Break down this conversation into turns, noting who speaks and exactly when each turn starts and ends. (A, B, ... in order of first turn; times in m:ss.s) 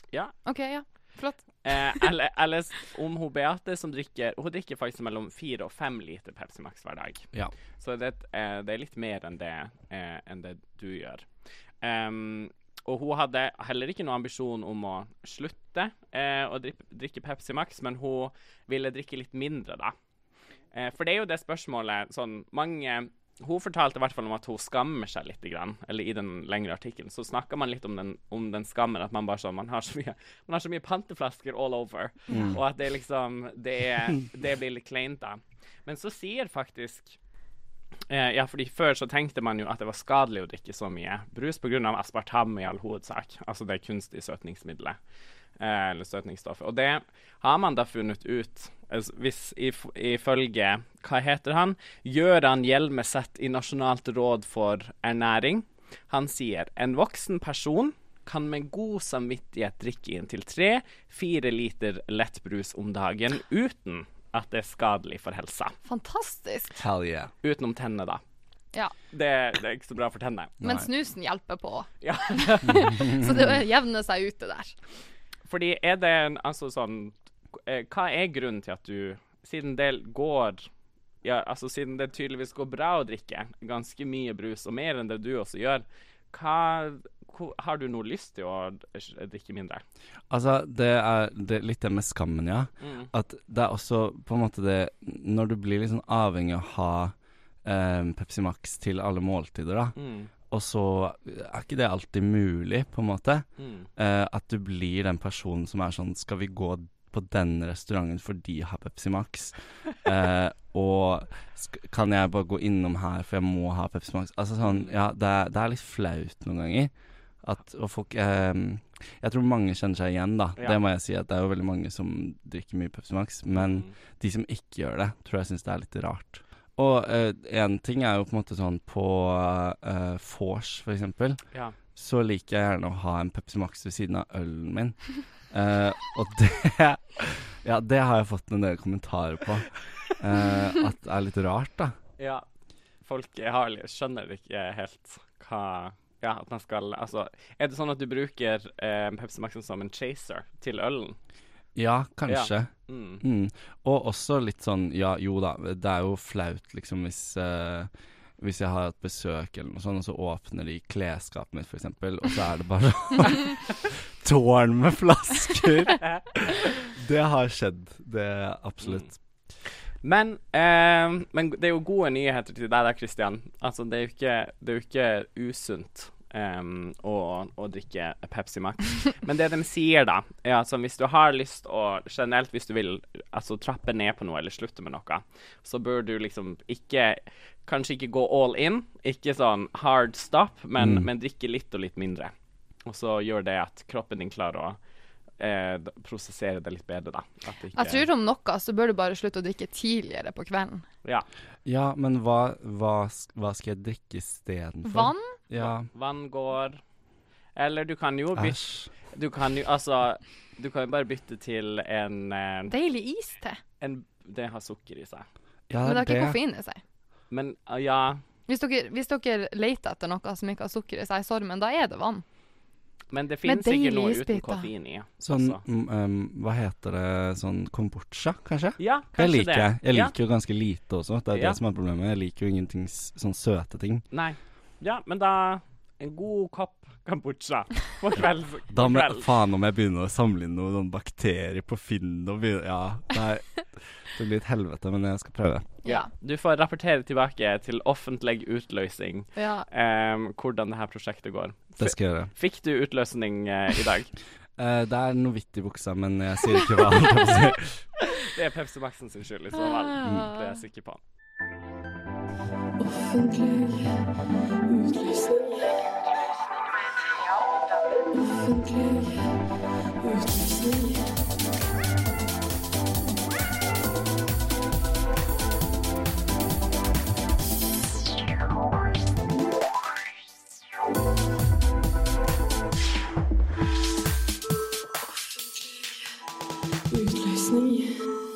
0:00.4-0:02.0 A
0:01.6-0:07.3 B
0:07.8-0:11.3 B
0:11.8-0:19.9 B
0:20.7-0:37.2 B
0:32.3-0:32.6 C
0:38.1-0:45.0 B
0:45.6-1:05.8 B
1:05.8-1:06.8 A
1:06.8-1:07.3 C
1:07.4-1:08.2 B
1:09.1-1:10.6 B
1:10.6-1:10.9 C
1:10.6-1:14.7 A
1:12.0-1:13.0 B
1:15.4-1:20.6 B
1:21.2-1:29.8 B
1:30.3-1:37.1 C
1:32.8-1:33.1 B
1:37.6-1:40.0 C
1:40.0-1:40.3 B
1:40.5-1:43.4 C
1:43.6-1:43.9 B
1:44.0-1:56.9 C
1:54.6-1:54.9 B
1:57.4-2:11.4 C
2:03.5-2:03.9 B
2:11.9-2:22.0 C
2:22.2-2:22.4 B
2:23.0-2:31.2 B
2:31.8-2:49.1 C
2:32.3-2:33.2 B
2:48.8-2:49.1 B
2:50.0-3:12.3 B
3:10.8-3:11.1 C
3:12.8-3:14.8 B
3:15.4-3:18.0 B
3:17.8-3:20.8 A
3:21.6-3:25.9 C
3:24.8-3:25.4 A
3:25.5-3:26.8 B
3:27.6-3:32.7 B
3:28.3-3:28.9 C
3:32.7-3:33.6 A
3:33.8-3:35.3 B
3:35.7-3:36.4 C
3:35.8-3:36.8 A
3:37.3-3:38.2 B
3:38.5-3:42.2 A
3:43.1-3:45.6 B
3:43.4-3:44.7 A
3:45.2-3:54.0 C
3:48.8-3:50.1 B
3:51.3-3:51.6 B
3:54.1-3:59.3 B
3:58.7-4:05.8 C
4:05.8-4:06.1 A
4:05.8-4:14.1 B
4:09.4-4:09.7 A
4:11.8-4:12.3 C
4:14.6-4:17.8 C
4:18.1-4:21.0 B
4:19.6-4:20.6 A
4:20.0-4:20.3 C
4:22.8-4:24.0 D
4:24.7-4:29.4 D
4:30.0-4:31.1 D
4:46.9-4:48.1 D